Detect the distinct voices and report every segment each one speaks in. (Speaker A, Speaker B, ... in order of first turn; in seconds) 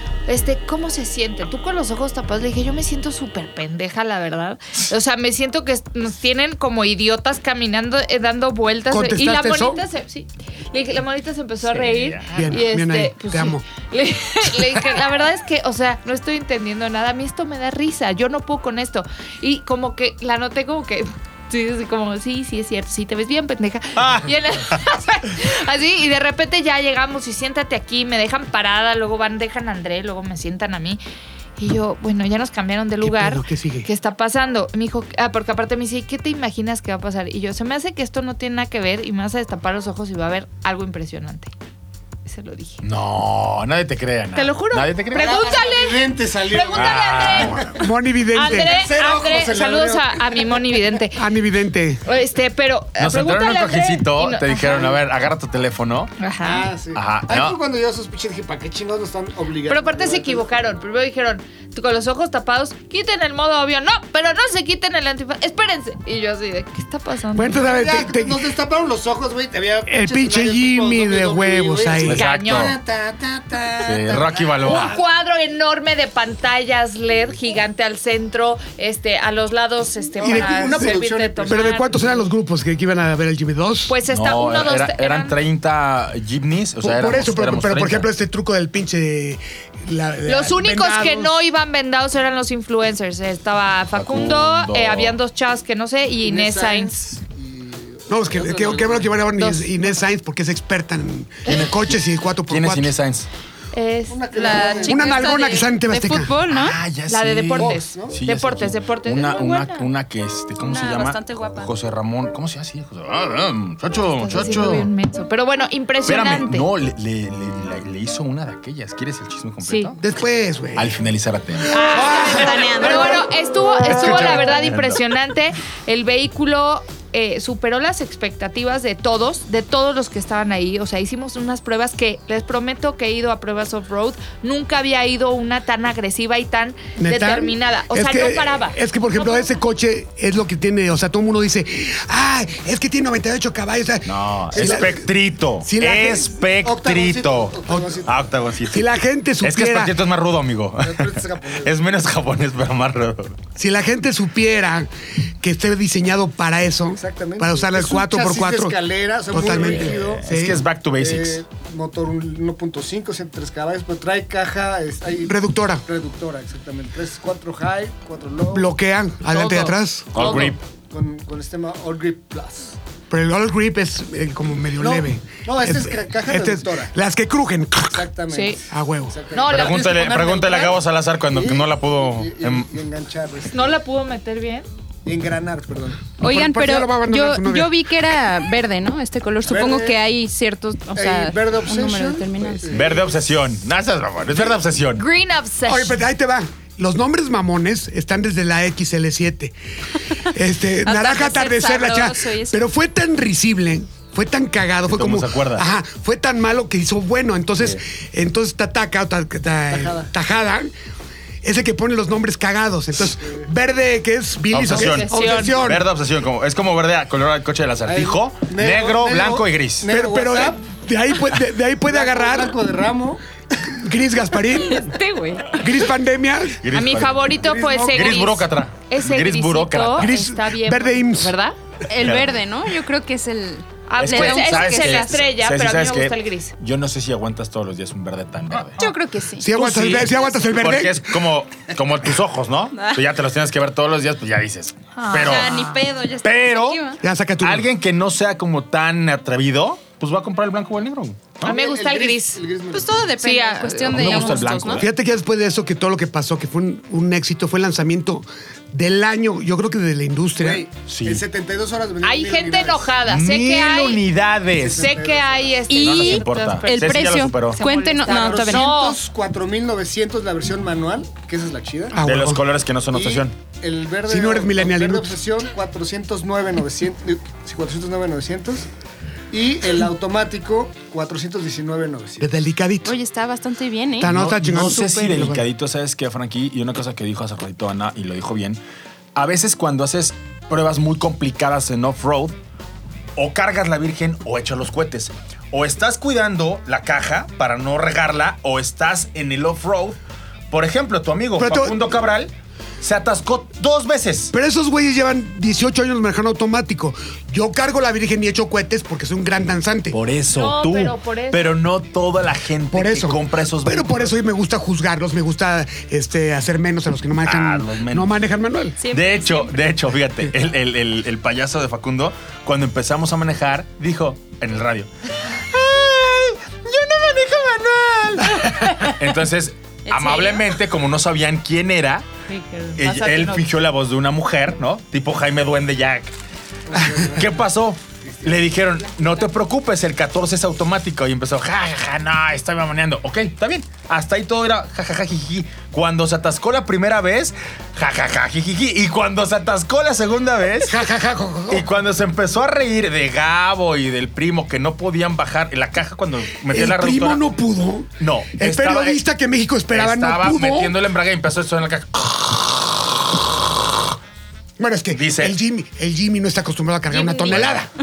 Speaker A: 0.3-31.0, 31.6-41.5, 42.2-42.8, 44.3-47.7, 48.3-51.2, 52.0-54.9, 56.2-56.7, 59.7-67.6, 72.1-72.7, 74.6-82.2, 83.9-85.3, 90.2-96.9, 99.3-99.8, 103.7-104.9, 107.1-109.8, 114.2-116.7, 119.6-119.9, 121.7-139.5, 169.3-170.5, 178.3-178.6, 179.3-180.7, 183.5-184.7, 194.9-196.0, 214.7-215.6, 226.7-231.5, 233.9-236.5, 244.9-245.8, 251.4-252.4, 253.2-254.7, 262.0-264.0, 264.7-269.0, 310.3-311.6, 332.3-333.4, 366.9-367.3
Speaker B: 8.9-9.8, 12.3-13.6, 33.0-33.9, 47.7-48.7, 51.1-52.0, 67.3-68.5, 69.9-72.2, 80.2-80.9, 81.5-84.0, 86.8-91.4, 98.1-102.9, 104.8-106.3, 120.0-121.0, 121.8-123.2, 137.0-145.1, 145.6-146.3, 147.7-148.0, 148.7-150.0, 153.6-154.9, 155.4-158.8, 159.3-160.6, 165.2-165.8, 168.5-170.4, 173.1-178.1, 178.7-179.2, 186.2-187.7, 195.7-199.5, 200.2-210.7, 211.4-215.8, 219.9-222.6, 223.7-225.0, 225.6-226.6, 229.9-231.3, 239.4-241.1, 247.0-247.7, 254.8-260.6, 271.9-272.4, 274.1-275.1, 282.2-283.0, 284.0-285.4, 301.4-301.8, 304.3-310.0, 312.7-318.8, 350.6-351.7, 356.5-360.8, 364.6-367.7
Speaker C: 11.7-12.5, 23.9-24.8, 42.8-45.4, 46.7-47.8, 53.0-56.1, 56.9-57.6, 72.0-72.7, 73.8-75.0, 84.1-88.1, 93.9-95.2, 101.5-103.3, 106.5-114.9, 116.1-120.0, 120.7-121.8, 123.8-125.0, 144.1-148.8, 149.4-153.4, 159.3-161.4, 170.1-170.6, 179.5-182.7, 192.7-195.0, 204.9-205.7, 214.5-219.9, 226.6-227.3, 227.9-230.1, 232.0-232.3, 234.0-238.8, 239.5-245.5, 246.2-246.8, 247.4-251.6, 253.9-254.9, 260.9-261.2, 263.1-265.0, 265.8-267.6, 272.0-273.3, 284.0-288.6, 289.1-292.3, 293.1-300.0, 300.5-304.3, 309.9-314.1, 317.2-318.1, 318.9-332.0, 332.8-336.1, 337.1-350.8, 351.5-357.2, 358.0-359.0, 359.7-362.6, 364.9-365.4, 367.2-367.7
Speaker D: 45.1-47.8, 48.5-50.8, 56.4-60.5, 67.6-75.0, 80.2-81.8, 96.2-99.1, 104.1-105.3, 107.6-108.2, 144.6-144.9, 146.6-148.1, 150.8-151.8, 156.9-160.2, 161.0-168.7, 170.1-172.8, 174.8-176.9, 177.9-180.7, 181.3-183.8, 185.1-186.1, 189.4-190.0, 190.9-193.2, 209.7-210.1, 213.2-213.5, 217.8-220.6, 221.9-223.2, 227.4-228.3, 251.4-253.1, 260.4-262.9, 264.5-265.6, 268.1-272.0, 272.9-278.7, 279.3-282.3, 336.7-337.4, 338.0-338.5
Speaker E: 104.3-106.8, 110.6-111.7, 121.9-123.2, 186.2-192.7, 200.8-202.6, 224.7-225.7, 231.9-235.2, 238.8-240.6, 242.7-243.0, 245.1-247.0, 252.7-254.8, 265.7-268.7, 282.8-284.1, 318.8-319.6, 329.9-330.4